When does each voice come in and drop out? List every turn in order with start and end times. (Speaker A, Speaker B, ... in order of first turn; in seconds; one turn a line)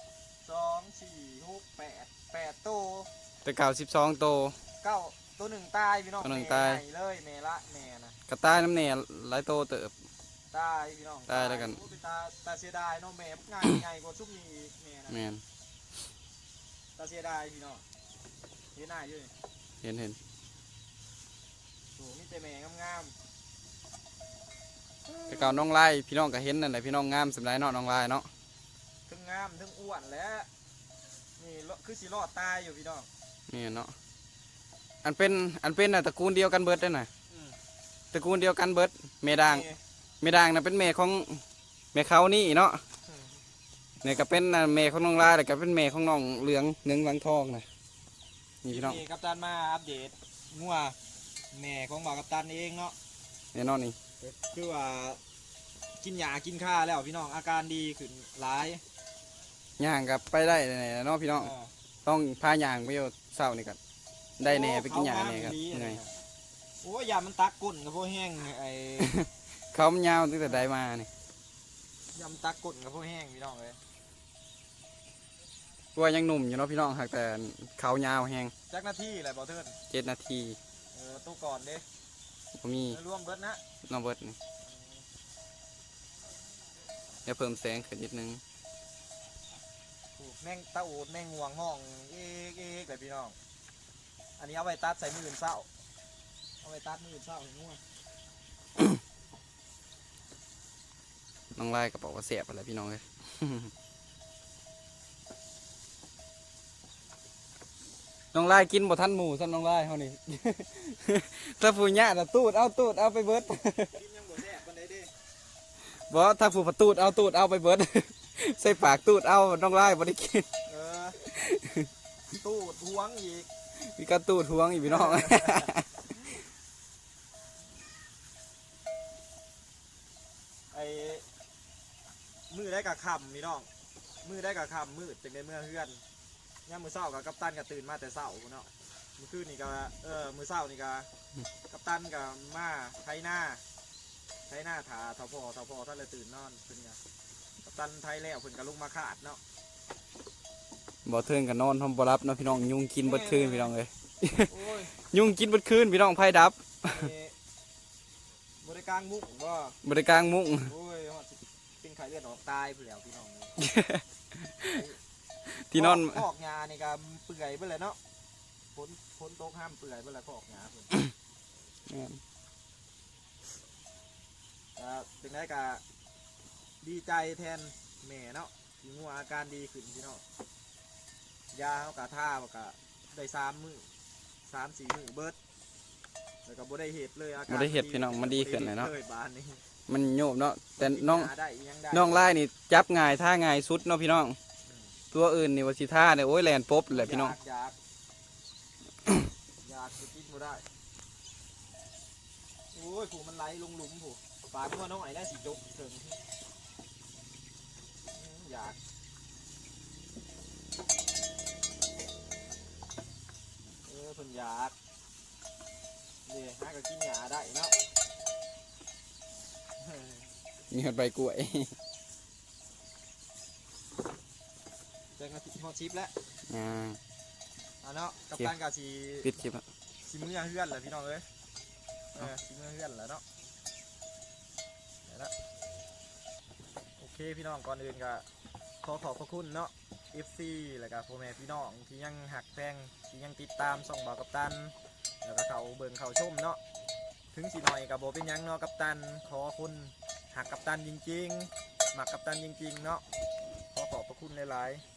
Speaker A: 0.4-3.1
Speaker B: 3.4-4.5
Speaker A: 4.8-8.2
Speaker B: 6.2-6.8
Speaker B: 8.3-9.9
Speaker A: 10.5-15.2
Speaker B: 11.3-11.8
Speaker B: 15.1-15.4
Speaker A: 16.9-17.8
Speaker A: 18.7-19.3
Speaker B: 19.8-20.2
Speaker A: 21.9-23.1
Speaker A: 25.1-25.6
Speaker B: 25.3-28.3
Speaker A: 29.1-30.5
Speaker A: 31.4-33.1
Speaker B: 33.5-33.9
Speaker B: 35.0-37.1
Speaker A: 37.3-37.5
Speaker B: 38.1-39.7
Speaker A: 39.3-39.8
Speaker B: 40.2-41.4
Speaker B: 41.9-42.8
Speaker B: 44.0-47.7
Speaker B: 48.6-49.0
Speaker A: 48.6-51.0
Speaker A: 51.5-53.0
Speaker B: 53.5-54.0
Speaker A: 54.2-55.2
Speaker A: 56.0-58.8
Speaker B: 59.8-61.5
Speaker A: 61.4-61.7
Speaker B: 62.0-63.8
Speaker B: 64.4-66.0
Speaker A: 64.4-66.1
Speaker A: 66.8-69.2
Speaker B: 69.0-71.1
Speaker A: 70.4-70.7
Speaker A: 72.1-73.8
Speaker B: 75.9-78.5
Speaker A: 78.7-79.7
Speaker B: 79.9-80.6
Speaker A: 80.9-81.8
Speaker B: 82.6-83.0
Speaker A: 82.9-83.6
Speaker B: 83.8-84.4
Speaker A: 84.6-85.0
Speaker B: 87.2-88.4
Speaker A: 90.2-93.3
Speaker A: 94.4-95.7
Speaker A: 96.6-97.8
Speaker B: 101.5-103.7
Speaker B: 108.3-114.0
Speaker A: 113.9-115.1
Speaker B: 115.8-120.5
Speaker A: 120.7-121.2
Speaker B: 121.2-121.9
Speaker A: 122.4-123.5
Speaker B: 123.8-126.0
Speaker A: 124.8-125.7
Speaker A: 130.7-131.2
Speaker A: 132.5-133.7
Speaker A: 134.2-136.0
Speaker A: 136.7-141.1
Speaker A: 141.7-143.6
Speaker A: 144.5-147.0
Speaker A: 147.6-149.4
Speaker B: 151.0-157.1
Speaker A: 153.0-153.7
Speaker A: 154.4-154.9
Speaker A: 156.8-157.3
Speaker A: 158.6-159.8
Speaker B: 159.8-160.7
Speaker A: 160.6-163.6
Speaker B: 163.6-164.8
Speaker A: 164.7-165.0
Speaker B: 165.5-166.2
Speaker A: 165.7-168.0
Speaker A: 168.7-170.9
Speaker B: 171.9-172.2
Speaker A: 174.8-175.8
Speaker A: 176.8-180.2
Speaker A: 181.5-183.9
Speaker A: 184.4-185.4
Speaker A: 186.4-189.6
Speaker B: 187.5-188.9
Speaker B: 189.9-191.3
Speaker A: 190.8-192.3
Speaker B: 191.9-194.4
Speaker B: 195.1-197.3
Speaker A: 196.9-197.8
Speaker A: 199.6-200.6
Speaker A: 202.7-206.2
Speaker A: 208.1-208.8
Speaker A: 213.8-214.7
Speaker A: 216.2-217.7
Speaker A: 219.8-220.3
Speaker B: 220.7-221.7
Speaker A: 225.2-226.1
Speaker B: 226.5-227.0
Speaker A: 227.8-229.3
Speaker B: 229.2-229.6
Speaker A: 230.0-231.2
Speaker A: 232.1-233.2
Speaker A: 235.1-235.3
Speaker A: 237.0-238.2
Speaker A: 238.8-246.6
Speaker A: 247.3-253.0
Speaker A: 253.7-254.8